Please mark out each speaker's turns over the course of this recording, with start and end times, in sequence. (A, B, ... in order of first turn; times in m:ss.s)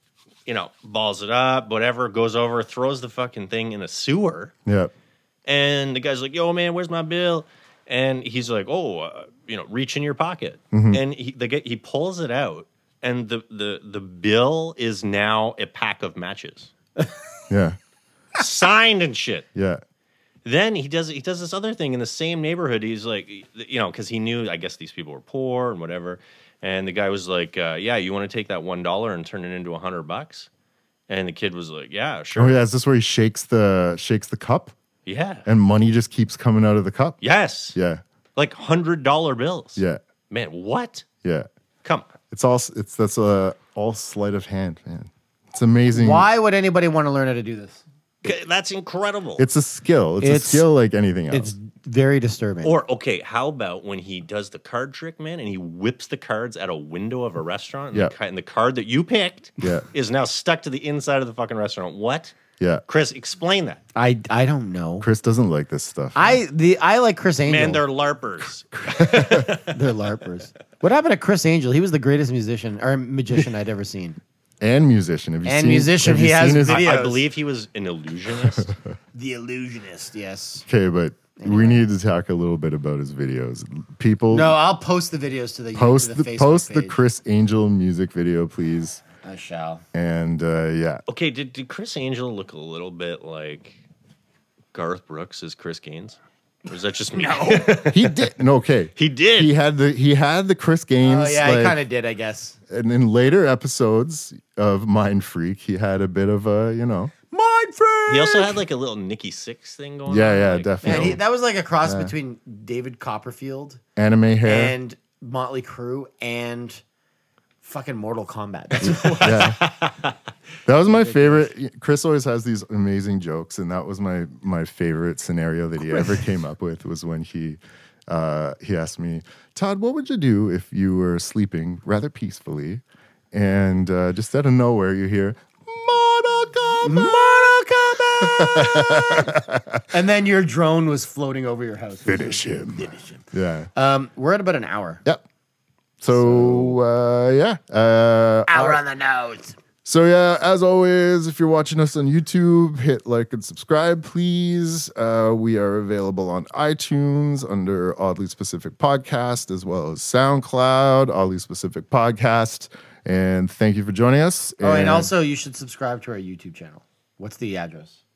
0:00.5-0:04.5 A
0:04.7-0:04.9 B
0:05.5-0:16.7 A
0:10.7-0:11.0 B
0:17.5-0:17.8 B
0:18.4-0:19.5 A
0:19.6-0:19.8 B
0:20.4-0:30.5 A
0:31.1-0:32.6 A
0:32.4-0:34.8 B
0:35.1-0:35.5 A
0:35.5-0:37.2 B
0:37.2-0:37.8 A
0:37.7-0:38.0 B
0:38.4-0:41.1 A
0:41.8-0:42.1 A
0:42.3-0:46.3 B
0:45.9-0:47.8 C
0:48.2-0:49.4 A
0:49.4-0:51.5 B
0:50.2-0:50.6 C
0:51.3-0:52.7 C
0:52.6-1:02.4 A
0:59.6-0:59.9 B
1:02.9-1:03.8 A
1:04.0-1:05.1 C
1:05.0-1:06.4 B
1:06.2-1:07.8 C
1:07.5-1:10.0 A
1:08.7-1:09.5 B
1:09.6-1:14.2 C
1:14.6-1:16.9 B
1:15.4-1:17.3 C
1:16.6-1:18.7 A
1:18.4-1:18.8 B
1:19.1-1:20.7 C
1:20.7-1:24.6 B
1:21.4-1:21.8 C
1:24.3-1:27.0 C
1:25.8-1:29.0 B
1:29.2-1:29.8 C
1:29.9-1:31.0 B
1:31.1-1:33.8 A
1:34.7-1:38.3 A
1:37.2-1:37.9 C
1:37.9-1:41.8 B
1:39.0-1:39.5 A
1:41.0-1:42.6 C
1:42.7-1:47.2 B
1:47.3-1:48.5 C
1:48.1-1:51.2 A
1:50.1-1:51.2 B
1:50.8-1:53.8 C
1:51.8-1:52.1 B
1:54.0-1:54.8 B
1:54.4-1:56.8 C
1:57.6-1:59.6 C
1:58.8-2:00.1 A
1:59.2-1:59.6 B
2:00.7-2:19.8 B
2:00.8-2:01.5 C
2:16.8-2:19.3 C
2:19.9-2:23.2 C
2:22.1-2:23.7 B
2:23.8-2:25.0 C
2:26.0-2:28.8 B
2:26.1-2:26.8 C
2:28.5-2:29.6 C
2:29.8-2:45.1 B
2:44.6-2:48.0 C